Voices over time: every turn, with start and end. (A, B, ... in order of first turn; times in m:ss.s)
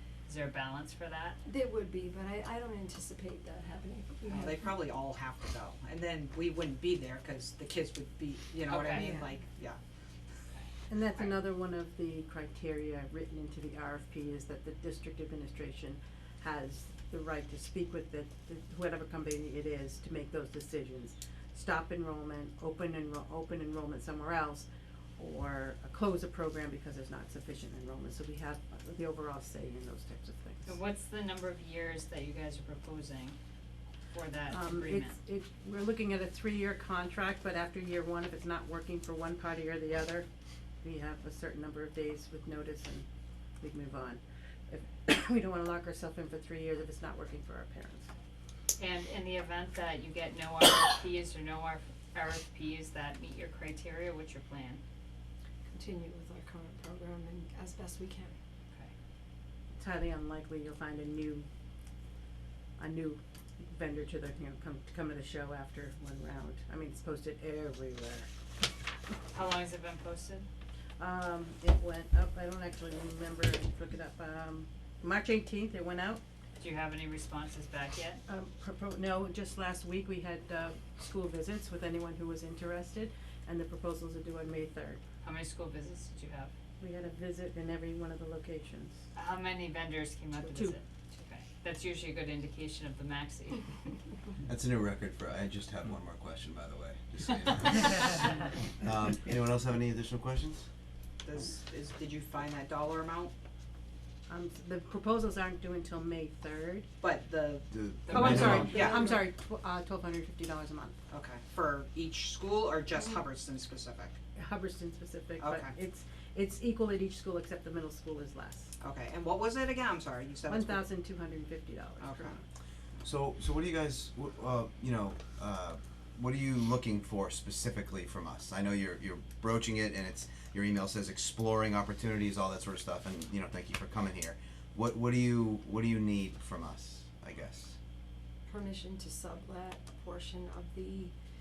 0:00.3-0:01.4 A
0:01.4-0:04.7 B
0:04.2-0:09.8 C
0:08.7-0:09.2 A
0:08.9-0:09.3 B
0:10.5-0:11.4 A
0:10.9-0:24.6 D
0:25.2-0:30.8 D
0:30.6-0:33.4 A
0:34.1-0:35.2 A
0:34.5-0:40.3 D
0:40.8-0:43.0 D
0:43.6-0:48.1 D
0:48.8-0:54.8 A
0:55.7-0:58.3 B
0:59.8-1:01.5 D
1:02.8-1:08.3 D
1:09.3-1:10.5 A
1:11.0-1:16.2 D
1:16.6-1:18.2 A
1:18.3-1:25.0 D
1:25.2-1:26.5 A
1:26.8-1:29.0 D
1:29.1-1:33.8 A
1:30.4-1:30.8 D
1:34.4-1:40.7 E
1:41.2-1:43.3 C
1:44.3-1:46.9 D
1:47.0-1:47.7 C
1:47.7-1:48.9 E
1:48.1-1:51.0 D
1:48.1-1:48.7 A
1:48.6-1:49.1 C
1:51.1-1:54.2 C
1:54.4-1:58.7 D
1:55.4-1:55.8 C
1:58.8-2:00.8 C
2:00.5-2:02.4 D
2:02.0-2:02.4 C
2:03.0-2:17.8 E
2:18.4-2:21.1 B